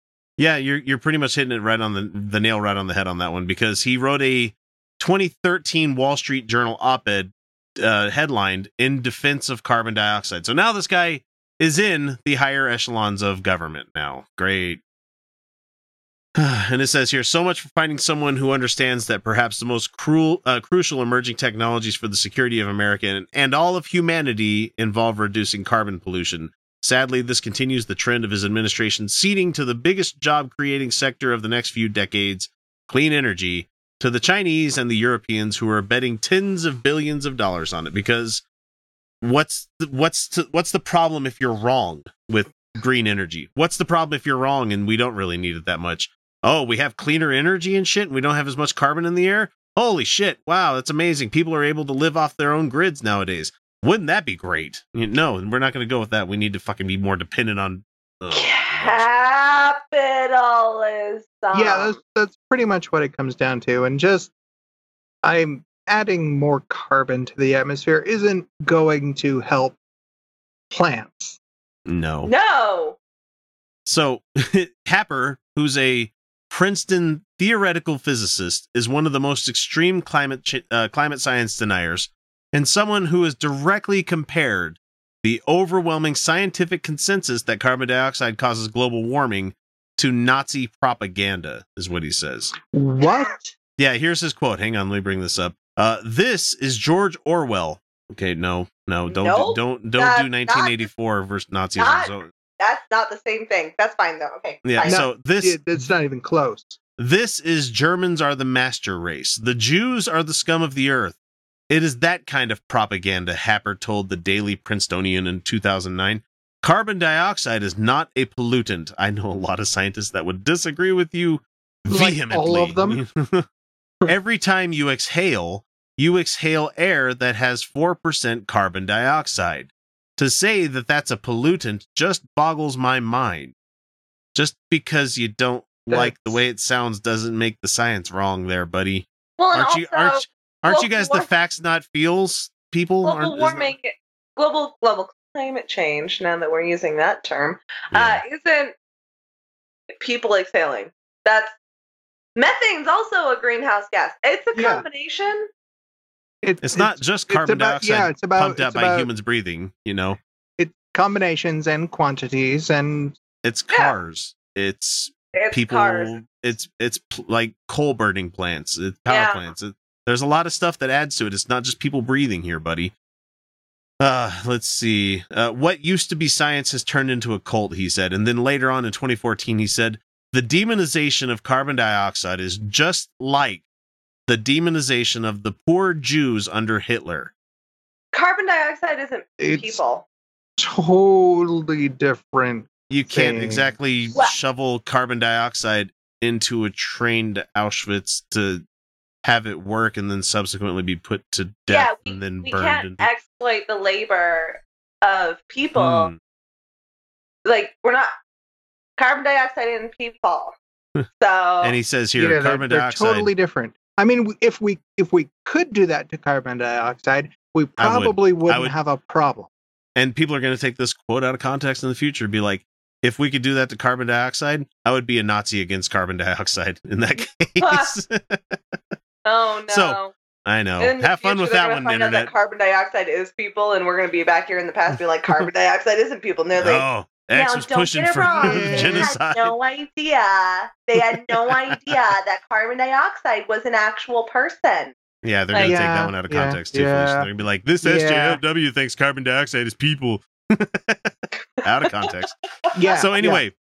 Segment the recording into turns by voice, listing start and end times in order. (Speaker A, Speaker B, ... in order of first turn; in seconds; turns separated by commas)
Speaker A: 0.4-14.8, Speaker A: 16.4-38.4, Speaker A: 39.2-59.0, Speaker B: 58.3-62.0, Speaker C: 61.5-64.3, Speaker C: 65.2-69.8, Speaker C: 70.7-71.4, Speaker A: 71.8-72.3, Speaker B: 72.2-73.0, Speaker A: 73.8-92.5, Speaker C: 92.7-93.5, Speaker B: 93.0-93.3, Speaker A: 93.8-102.3, Speaker B: 99.1-100.8, Speaker B: 101.8-105.0, Speaker A: 104.6-105.6, Speaker C: 104.8-106.8, Speaker A: 107.0-111.2, Speaker A: 111.7-123.5, Speaker C: 121.9-123.0, Speaker A: 124.0-133.5, Speaker A: 134.3-143.7, Speaker C: 135.9-136.4, Speaker B: 139.4-141.3, Speaker B: 143.0-148.7, Speaker A: 147.9-148.2, Speaker B: 149.9-151.5, Speaker B: 152.3-155.5, Speaker C: 154.5-154.8, Speaker C: 156.4-159.1, Speaker A: 156.6-160.2, Speaker C: 160.6-163.2, Speaker A: 163.4-172.9, Speaker B: 165.3-166.2, Speaker B: 169.1-169.4, Speaker A: 174.0-183.6, Speaker A: 184.3-187.3, Speaker B: 188.1-190.0, Speaker C: 189.4-189.8, Speaker C: 190.6-193.7, Speaker A: 192.9-198.6, Speaker A: 199.2-203.1, Speaker B: 201.7-206.1, Speaker A: 205.8-206.2, Speaker B: 207.4-208.1, Speaker B: 209.0-210.6, Speaker B: 211.2-211.8, Speaker A: 211.6-213.3, Speaker C: 212.2-219.5, Speaker A: 217.8-218.7, Speaker A: 219.9-228.6, Speaker B: 227.6-227.9, Speaker B: 229.2-230.1, Speaker A: 229.7-232.3, Speaker B: 230.8-244.9, Speaker A: 236.6-239.5, Speaker C: 238.4-239.1, Speaker A: 241.0-242.0, Speaker A: 245.2-251.1, Speaker B: 245.5-245.8, Speaker C: 245.6-247.3, Speaker C: 247.8-248.4, Speaker A: 251.6-252.3, Speaker B: 252.7-253.1, Speaker C: 252.8-253.4, Speaker A: 252.9-253.5